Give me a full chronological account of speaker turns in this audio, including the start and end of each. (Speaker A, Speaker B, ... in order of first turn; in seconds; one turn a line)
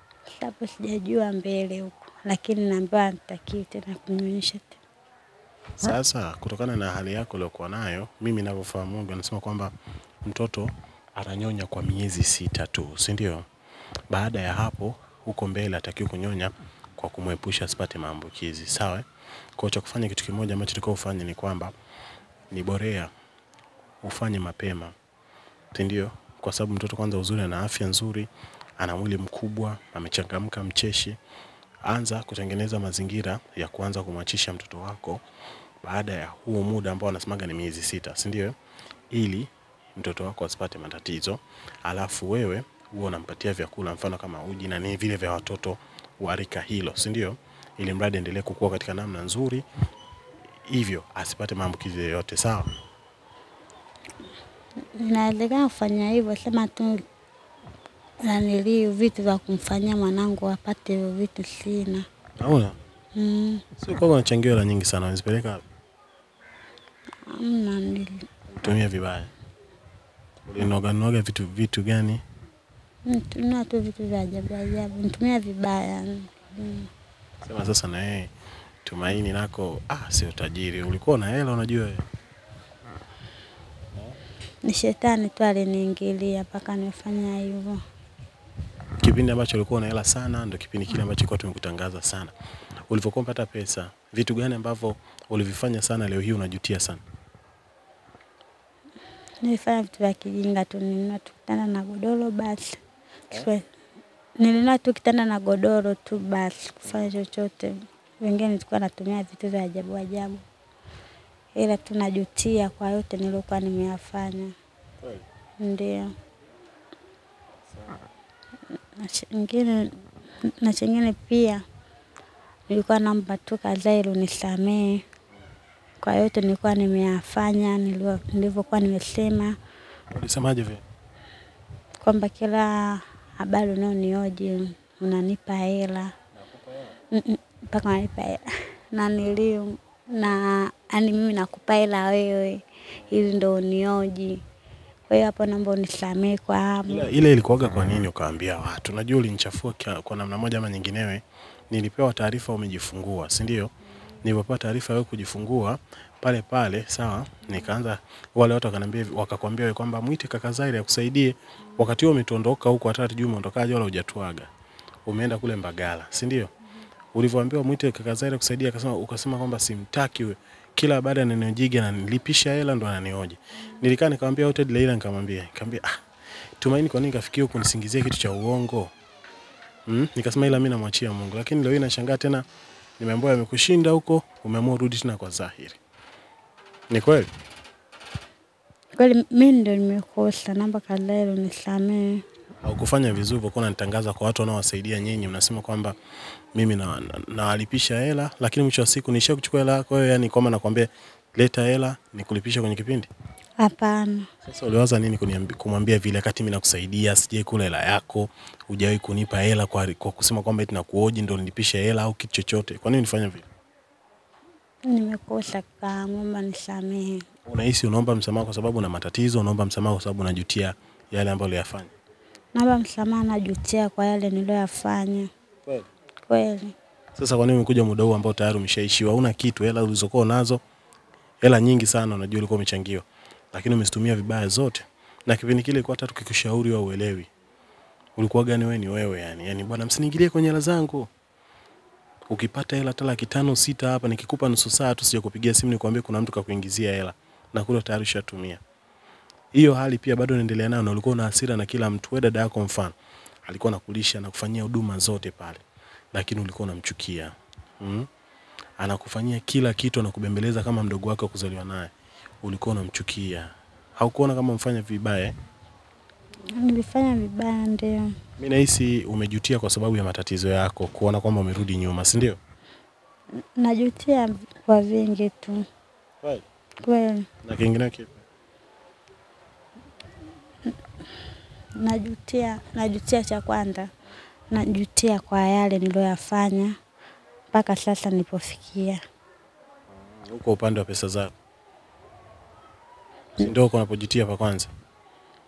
Speaker A: 0.3-4.8
Speaker B: 5.8-9.7
Speaker B: 10.2-13.4
Speaker B: 14.1-19.1
Speaker B: 19.6-21.7
Speaker B: 22.5-23.1
Speaker B: 24.0-24.9
Speaker B: 25.7-31.2
Speaker B: 31.8-35.2
Speaker B: 35.8-38.5
Speaker B: 39.1-49.7
Speaker B: 50.7-52.7
Speaker A: 54.9-57.0
Speaker A: 58.2-62.1
Speaker B: 62.4-62.8
Speaker A: 63.2-63.7
Speaker B: 63.8-65.6
Speaker A: 67.3-68.3
Speaker B: 68.5-69.3
Speaker B: 70.5-72.2
Speaker A: 73.1-76.9
Speaker B: 77.4-78.3
Speaker B: 78.8-82.1
Speaker A: 84.6-87.8
Speaker B: 89.0-92.3
Speaker B: 92.9-97.0
Speaker A: 99.4-102.8
Speaker A: 103.3-103.7
Speaker A: 104.4-110.5
Speaker A: 111.5-114.5
Speaker A: 115.6-116.1
Speaker A: 119.0-121.6
Speaker A: 122.7-125.0
Speaker A: 126.0-129.6
Speaker B: 130.1-130.8
Speaker A: 132.0-136.1
Speaker B: 136.4-136.9
Speaker A: 137.1-144.4
Speaker A: 145.1-147.1
Speaker B: 146.9-153.7
Speaker B: 154.2-164.5
Speaker B: 165.1-166.5
Speaker B: 167.1-176.0
Speaker B: 176.6-178.9
Speaker B: 179.9-182.4
Speaker B: 183.0-185.8
Speaker B: 186.9-187.3
Speaker A: 188.9-192.2
Speaker B: 192.6-195.9
Speaker B: 196.5-203.1
Speaker A: 203.6-204.3
Speaker B: 204.5-213.5
Speaker A: 214.9-217.2
Speaker B: 217.5-221.9
Speaker A: 222.5-225.3
Speaker A: 226.3-226.8
Speaker B: 227.2-230.6
Speaker B: 231.4-237.3
Speaker B: 238.2-241.1
Speaker B: 242.3-248.6
Speaker B: 249.5-252.9
Speaker B: 253.5-258.1
Speaker B: 258.8-261.9
Speaker B: 262.4-265.3
Speaker A: 266.6-268.2
Speaker B: 268.4-272.4
Speaker A: 273.4-275.7
Speaker A: 276.8-277.3
Speaker B: 277.4-278.2
Speaker A: 281.8-283.9
Speaker A: 284.5-286.8
Speaker A: 287.5-289.0
Speaker B: 290.1-291.3
Speaker B: 293.4-294.7